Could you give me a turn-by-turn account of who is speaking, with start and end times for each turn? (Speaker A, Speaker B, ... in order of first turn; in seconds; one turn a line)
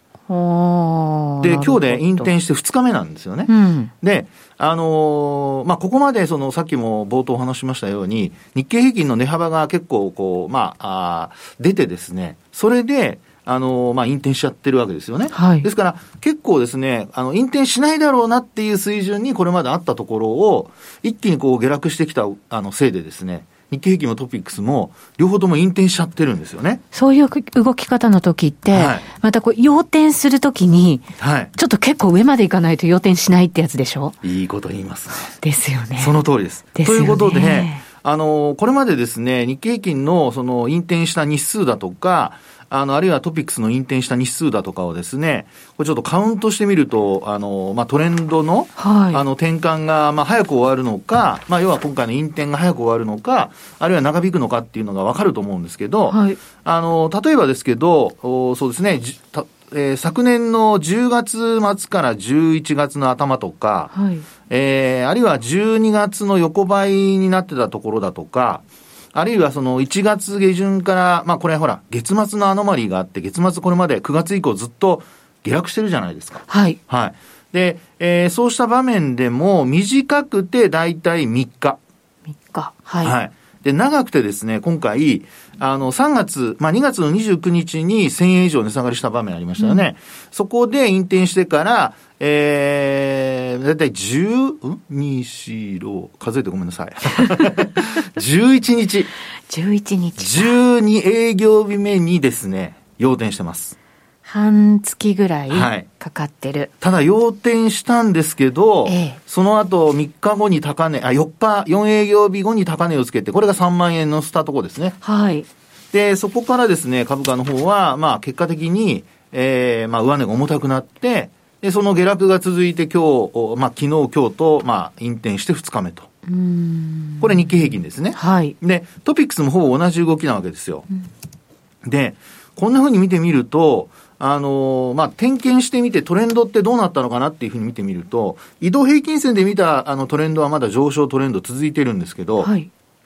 Speaker A: 0.3-2.3
Speaker B: 1.4-26.8
Speaker A: 3.5-3.9
Speaker A: 15.3-15.7
Speaker A: 26.9-34.2
Speaker B: 28.7-29.1
Speaker B: 31.2-31.5
Speaker B: 34.2-35.3
Speaker A: 35.4-36.1
Speaker B: 36.0-63.9
Speaker A: 36.8-37.8
Speaker A: 48.8-49.2
Speaker A: 56.1-56.4
Speaker A: 63.9-64.2
Speaker B: 64.5-68.6
Speaker B: 69.1-81.8
Speaker A: 76.5-76.8
Speaker A: 82.4-83.1
Speaker B: 83.0-99.1
Speaker A: 99.5-100.5
Speaker B: 100.2-103.8
Speaker A: 104.3-106.7
Speaker B: 105.5-105.9
Speaker B: 106.8-115.0
Speaker A: 108.9-109.2
Speaker A: 115.0-115.5
Speaker B: 115.9-126.1
Speaker A: 126.3-127.3
Speaker B: 127.2-130.9
Speaker A: 128.2-128.6
Speaker B: 131.8-142.5
Speaker A: 142.4-142.7